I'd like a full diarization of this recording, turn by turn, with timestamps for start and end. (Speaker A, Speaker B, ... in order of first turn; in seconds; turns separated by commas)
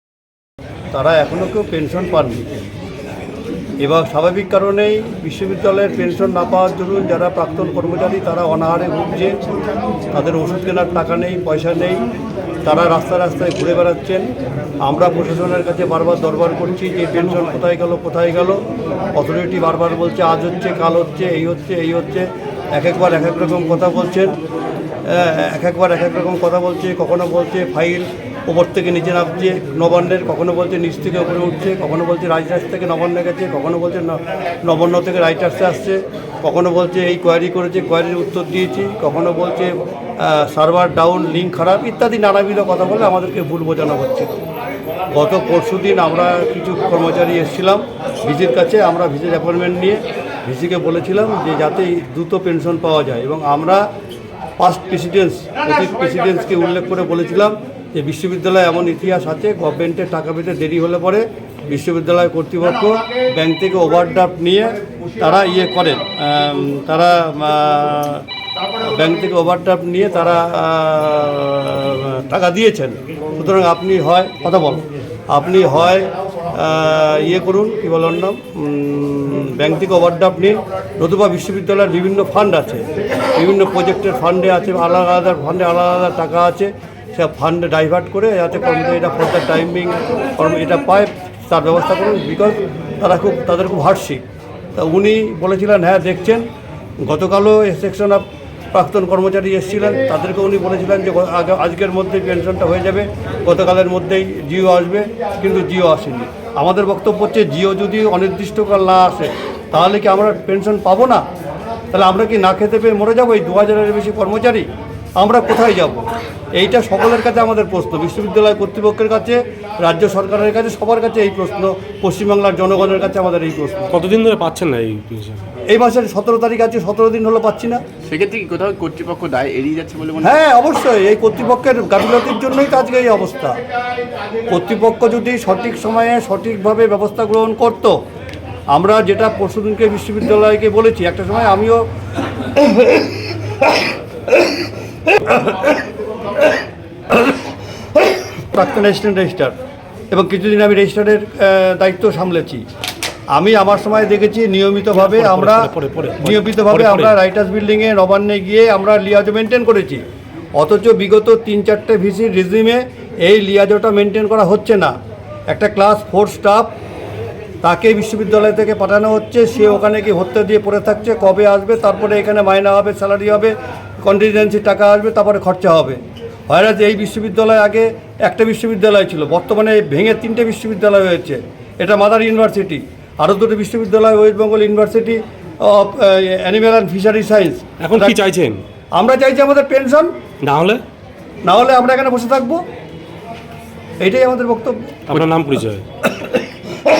Speaker A: 0.9-2.6, Speaker A: 3.8-9.4, Speaker A: 10.1-12.0, Speaker A: 12.6-14.3, Speaker A: 14.8-18.6, Speaker A: 19.1-24.4, Speaker A: 25.0-44.4, Speaker A: 45.1-53.8, Speaker A: 54.6-68.2, Speaker A: 68.8-94.2, Speaker A: 94.8-96.5, Speaker A: 97.0-111.2, Speaker A: 111.9-114.7, Speaker A: 115.2-123.9, Speaker B: 123.9-125.4, Speaker A: 125.7-127.8, Speaker C: 128.0-130.3, Speaker A: 130.2-133.6, Speaker A: 134.5-137.9, Speaker A: 138.7-141.8, Speaker A: 142.6-143.0, Speaker A: 145.1-145.8, Speaker A: 148.1-149.5, Speaker A: 150.1-152.6, Speaker A: 153.3-160.0, Speaker B: 155.0-157.2, Speaker A: 160.6-164.9, Speaker A: 165.5-166.7, Speaker A: 167.6-188.2, Speaker B: 187.8-188.6, Speaker A: 188.9-190.1, Speaker B: 190.4-190.8, Speaker A: 191.4-192.6, Speaker A: 194.0-195.3, Speaker B: 195.1-195.8